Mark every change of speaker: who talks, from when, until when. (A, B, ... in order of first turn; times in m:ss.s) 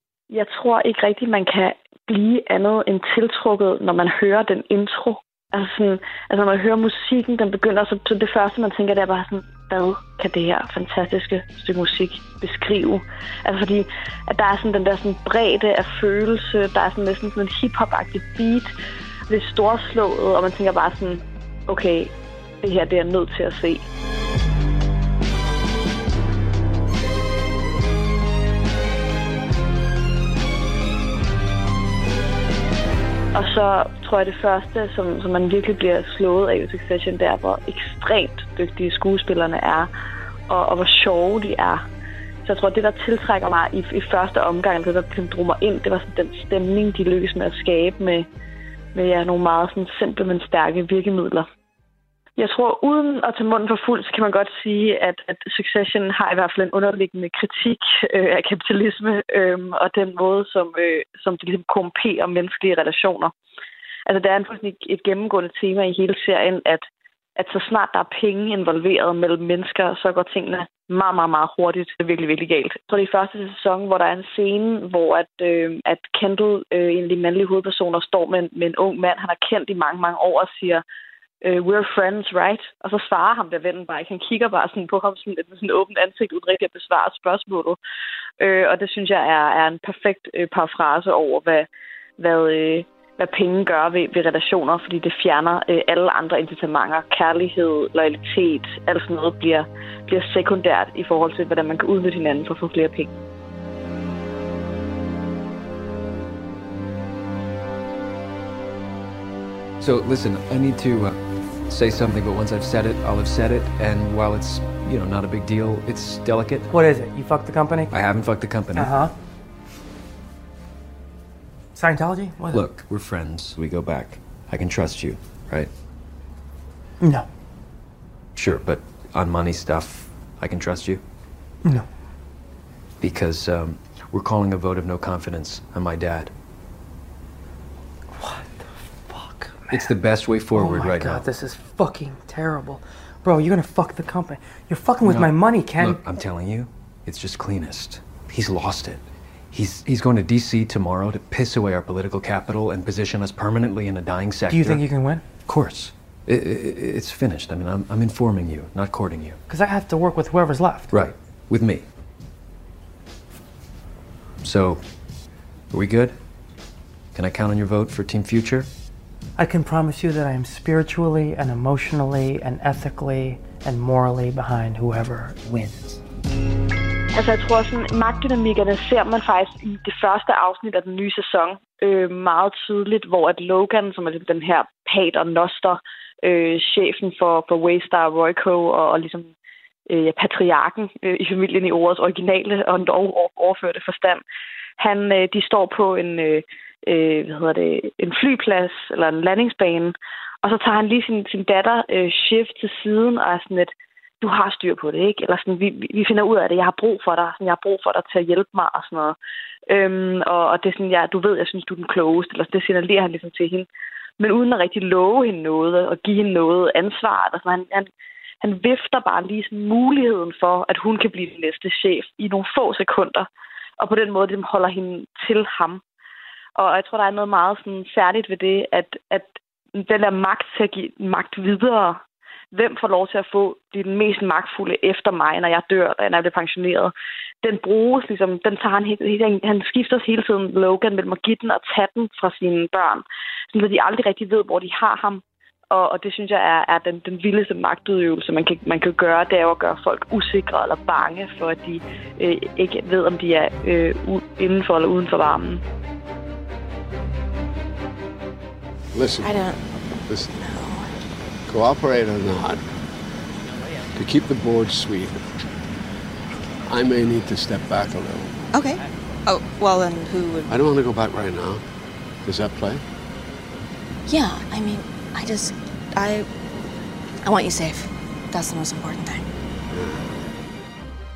0:00.3-0:18.7 A
0:19.3-0:23.8 A
0:33.3-0:39.9 A
0:40.5-0:41.8 A
0:42.4-0:48.3 A
0:49.0-0:51.5 A
0:52.4-1:03.3 A
1:04.1-1:06.9 A
1:07.4-1:20.8 A
1:21.4-1:27.8 A
1:28.4-1:31.7 A
1:32.2-1:43.1 A
1:49.8-1:56.7 B
1:56.7-1:58.0 C
1:57.9-1:59.0 B
1:58.8-1:59.1 C
2:01.8-2:02.7 C
2:02.5-2:05.7 B
2:07.0-2:07.3 C
2:08.3-2:11.0 B
2:13.0-2:16.3 B
2:18.1-2:19.9 C
2:19.7-2:21.3 B
2:20.5-2:26.0 C
2:25.0-2:39.4 B
2:34.5-2:35.2 C
2:39.5-2:41.1 C
2:40.9-2:41.8 B
2:44.4-2:45.1 B
2:45.7-2:46.2 B
2:47.1-2:48.7 B
2:49.4-2:56.0 C
2:57.1-3:09.3 A
3:09.9-3:14.2 A
3:14.8-3:29.2 A
3:29.7-3:33.7 A
3:34.2-3:37.9 A
3:38.4-3:43.3 A
3:43.8-3:45.8 A
3:46.6-3:52.0 A
3:52.5-3:56.9 A
3:57.4-4:15.6 A
4:18.9-4:19.4 D
4:19.2-4:19.6 E
4:20.4-4:20.9 E
4:21.5-4:22.7 D
4:24.0-4:25.3 D
4:26.7-4:28.4 D
4:28.5-4:28.8 E
4:29.3-4:30.3 E
4:30.5-4:31.6 D
4:32.2-4:32.8 D
4:34.1-4:36.3 E
4:37.2-4:39.3 E
4:39.8-4:40.0 D